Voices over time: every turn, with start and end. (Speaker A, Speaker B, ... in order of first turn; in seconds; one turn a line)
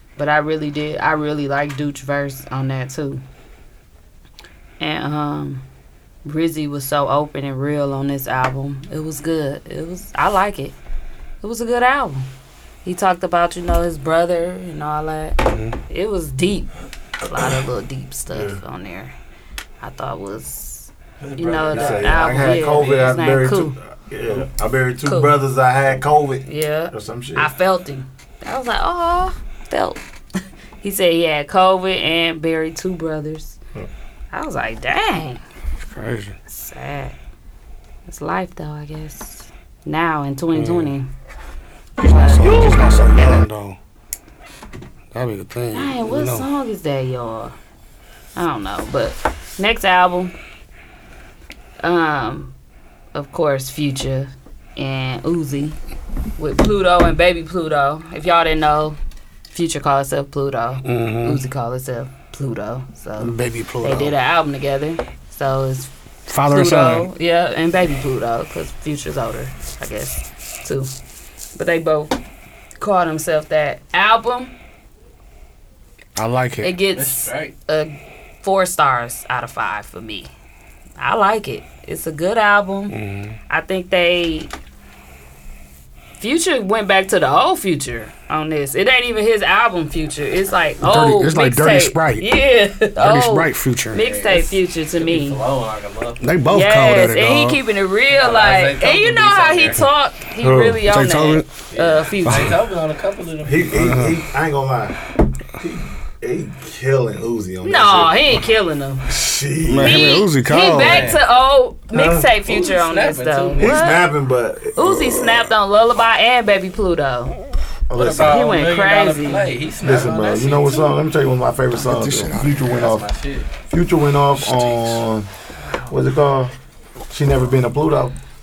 Speaker A: 0.2-3.2
Speaker A: 4.8-5.6
Speaker A: 6.2-10.8
Speaker A: 11.4-12.2
Speaker A: 12.8-15.4
Speaker B: 15.5-15.8
Speaker A: 15.9-16.7
Speaker A: 17.3-19.1
Speaker C: 18.3-18.6
Speaker A: 19.8-23.8
Speaker D: 21.2-22.2
Speaker C: 21.7-27.5
Speaker D: 22.8-23.1
Speaker A: 25.0-25.4
Speaker A: 26.4-30.0
Speaker A: 30.8-33.6
Speaker A: 34.3-35.4
Speaker B: 35.8-36.4
Speaker A: 36.5-37.1
Speaker A: 38.1-41.1
Speaker B: 40.5-40.9
Speaker B: 42.0-43.8
Speaker A: 42.0-43.4
Speaker C: 42.5-42.8
Speaker B: 45.1-46.5
Speaker A: 45.7-47.5
Speaker A: 48.4-50.3
Speaker A: 51.8-52.5
Speaker A: 53.1-55.8
Speaker A: 56.4-59.0
Speaker A: 59.5-65.9
Speaker B: 60.8-61.4
Speaker B: 63.2-64.2
Speaker B: 66.3-67.1
Speaker A: 66.5-70.9
Speaker A: 71.6-72.1
Speaker A: 72.8-74.5
Speaker B: 76.2-76.7
Speaker A: 76.6-80.3
Speaker D: 77.0-77.5
Speaker A: 81.0-83.0
Speaker B: 82.9-83.4
Speaker A: 83.5-84.5
Speaker A: 86.2-95.4
Speaker B: 90.8-92.3
Speaker B: 93.0-94.0
Speaker D: 94.0-96.3
Speaker B: 96.2-97.6
Speaker A: 96.5-102.5
Speaker D: 98.1-99.8
Speaker C: 100.4-100.8
Speaker B: 100.8-101.5
Speaker D: 101.7-103.9
Speaker B: 102.3-102.6
Speaker C: 103.4-105.0
Speaker B: 103.8-104.2
Speaker C: 105.6-108.5
Speaker A: 107.6-109.0
Speaker C: 109.1-110.2
Speaker B: 109.7-111.1
Speaker A: 109.8-114.1
Speaker D: 110.8-111.2
Speaker C: 111.9-112.3
Speaker D: 112.5-114.1
Speaker C: 113.6-115.4
Speaker A: 114.8-117.3
Speaker C: 117.9-118.5
Speaker D: 118.0-121.0
Speaker A: 118.2-119.5
Speaker C: 119.8-123.1
Speaker B: 121.8-122.8
Speaker D: 122.6-123.5
Speaker C: 123.7-125.3
Speaker B: 124.4-125.0
Speaker A: 125.6-125.9
Speaker C: 125.9-126.5
Speaker C: 127.1-128.2